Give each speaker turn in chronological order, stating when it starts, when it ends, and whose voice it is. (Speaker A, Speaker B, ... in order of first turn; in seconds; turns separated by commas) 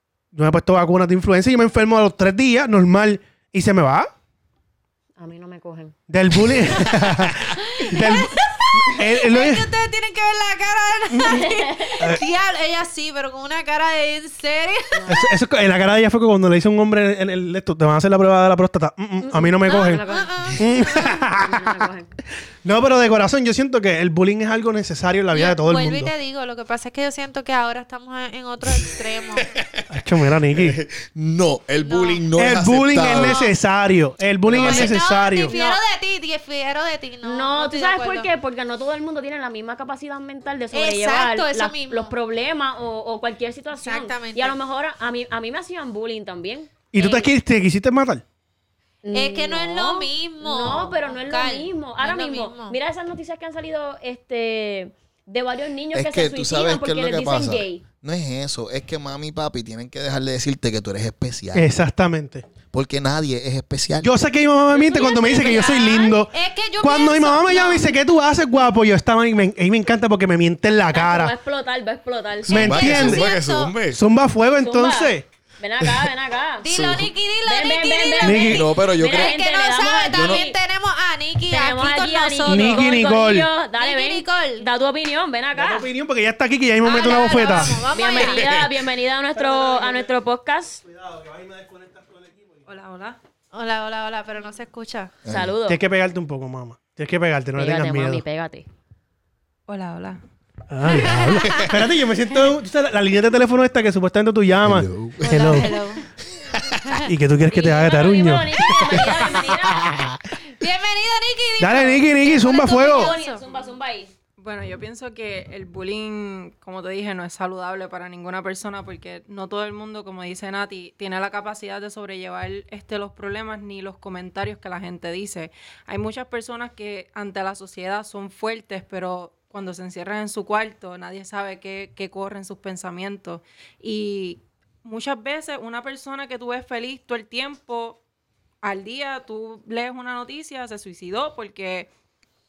Speaker A: 0.3-4.1, Speaker B: 5.2-5.9, Speaker A: 6.1-9.7, Speaker C: 7.5-15.1, Speaker B: 11.2-12.1, Speaker B: 14.9-15.3, Speaker A: 15.1-20.0, Speaker B: 19.2-22.1, Speaker C: 19.7-21.2, Speaker A: 20.6-21.8, Speaker A: 22.6-26.1, Speaker C: 25.3-29.5, Speaker A: 29.9-30.8, Speaker D: 30.5-33.4, Speaker C: 31.8-32.2, Speaker A: 32.4-35.5, Speaker C: 33.1-33.6, Speaker D: 34.4-35.0, Speaker C: 34.6-38.3, Speaker B: 35.5-35.8, Speaker B: 37.2-47.3, Speaker C: 40.7-42.1, Speaker C: 43.8-44.5, Speaker A: 46.9-48.2, Speaker B: 49.0-57.8, Speaker C: 49.1-52.8, Speaker D: 55.9-61.7, Speaker A: 61.5-62.4, Speaker D: 62.7-64.2, Speaker A: 64.0-71.3, Speaker C: 64.7-67.9, Speaker B: 64.9-66.0, Speaker B: 70.9-73.0, Speaker D: 72.5-74.0, Speaker A: 72.5-73.3, Speaker C: 72.5-73.8, Speaker A: 73.9-75.2, Speaker B: 74.5-76.7, Speaker D: 75.8-76.1, Speaker C: 76.6-83.0, Speaker D: 76.7-77.1, Speaker B: 77.5-80.6, Speaker A: 78.2-78.7, Speaker D: 78.5-79.4, Speaker D: 80.1-80.4, Speaker B: 81.5-85.9, Speaker A: 82.5-83.5, Speaker C: 83.7-84.6, Speaker A: 85.5-87.8, Speaker C: 86.8-88.6, Speaker B: 87.9-90.8, Speaker D: 88.2-88.7, Speaker A: 89.5-90.0, Speaker A: 90.8-92.6, Speaker E: 92.7-93.2, Speaker C: 93.5-95.1, Speaker D: 95.2-95.5, Speaker B: 95.3-95.8, Speaker A: 95.7-98.2, Speaker B: 97.5-98.7, Speaker E: 99.7-100.2, Speaker A: 100.7-105.8, Speaker C: 100.9-101.8, Speaker D: 104.6-105.6, Speaker C: 105.2-106.0, Speaker A: 107.0-110.2, Speaker B: 107.5-109.9, Speaker C: 110.5-113.4, Speaker A: 111.6-113.2, Speaker B: 112.4-114.1, Speaker E: 114.4-138.0, Speaker E: 138.6-141.9